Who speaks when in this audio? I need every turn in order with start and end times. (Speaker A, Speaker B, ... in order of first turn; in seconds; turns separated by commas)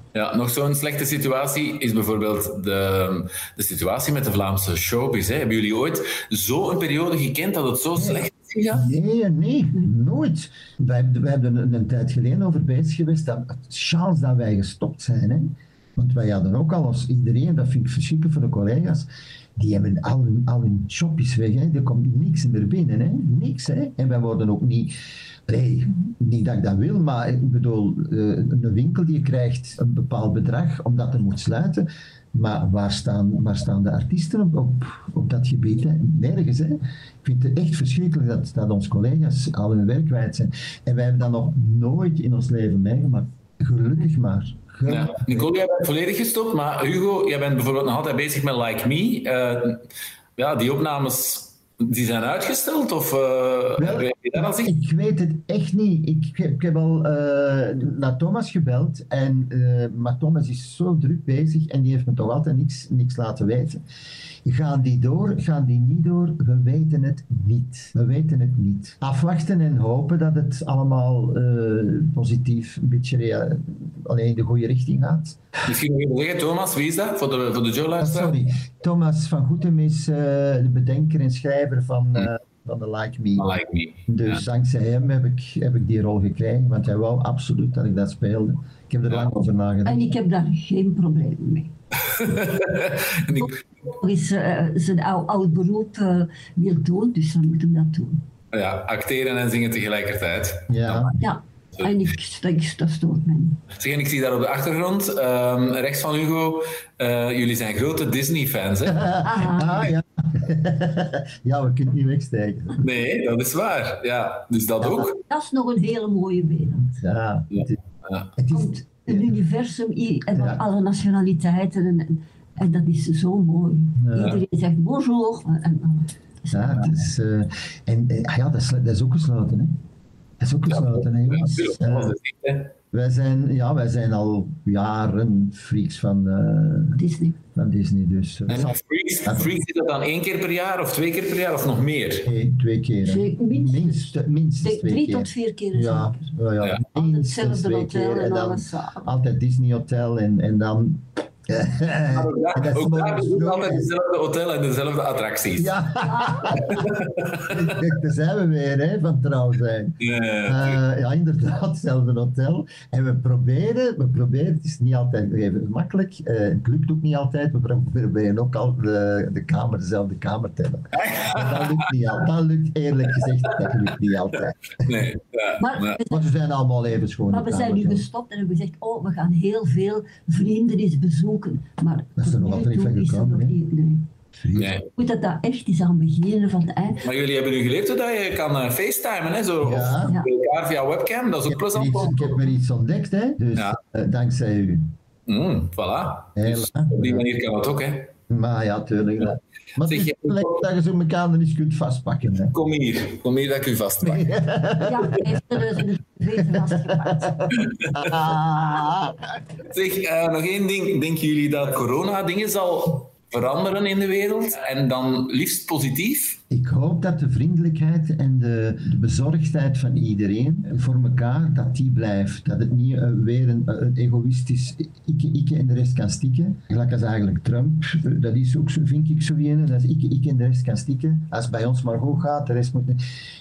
Speaker A: 0.1-9.0, Speaker B: 8.0-24.9, Speaker B: 25.5-45.5, Speaker A: 44.9-49.8, Speaker A: 50.4-54.7, Speaker B: 53.8-63.8, Speaker B: 64.5-75.4, Speaker A: 75.7-78.4, Speaker B: 78.0-83.5, Speaker A: 83.4-84.4, Speaker B: 84.1-90.2, Speaker C: 89.8-91.7, Speaker A: 92.1-93.5, Speaker C: 93.3-98.2, Speaker A: 98.5-101.2, Speaker B: 100.7-101.2, Speaker C: 101.2-103.6, Speaker A: 103.8-109.1, Speaker B: 108.9-112.8, Speaker C: 109.2-109.9, Speaker A: 112.8-115.2, Speaker B: 114.8-115.1, Speaker C: 115.3-116.8, Speaker B: 116.8-117.8, Speaker A: 117.5-118.3, Speaker B: 118.4-119.4, Speaker C: 118.5-126.9, Speaker B: 120.3-120.6, Speaker B: 124.0-124.4, Speaker B: 126.5-129.7, Speaker B: 130.4-132.2, Speaker A: 130.7-132.7, Speaker B: 132.9-137.0, Speaker C: 136.9-137.4, Speaker B: 137.6-139.5, Speaker A: 138.5-142.3, Speaker B: 142.2-153.9, Speaker C: 143.0-146.3, Speaker C: 147.0-149.1, Speaker A: 152.1-155.7, Speaker B: 155.6-156.8, Speaker C: 156.0-156.8, Speaker A: 156.8-157.6, Speaker B: 157.5-174.9, Speaker A: 160.0-160.8, Speaker A: 171.0-171.8, Speaker A: 174.8-176.0, Speaker C: 175.6-176.3, Speaker B: 176.1-178.1, Speaker C: 177.3-184.1, Speaker B: 182.2-183.6, Speaker B: 184.4-184.8, Speaker A: 184.6-184.9, Speaker C: 185.0-187.0, Speaker A: 187.0-192.5, Speaker B: 189.6-190.2, Speaker B: 191.5-194.9, Speaker A: 195.3-198.1, Speaker B: 196.4-197.2, Speaker B: 198.3-202.6, Speaker A: 199.8-200.6, Speaker A: 202.5-204.3, Speaker B: 204.0-205.4, Speaker C: 204.8-207.5, Speaker B: 206.6-209.2, Speaker A: 207.6-208.0, Speaker A: 209.7-216.4, Speaker B: 216.5-233.0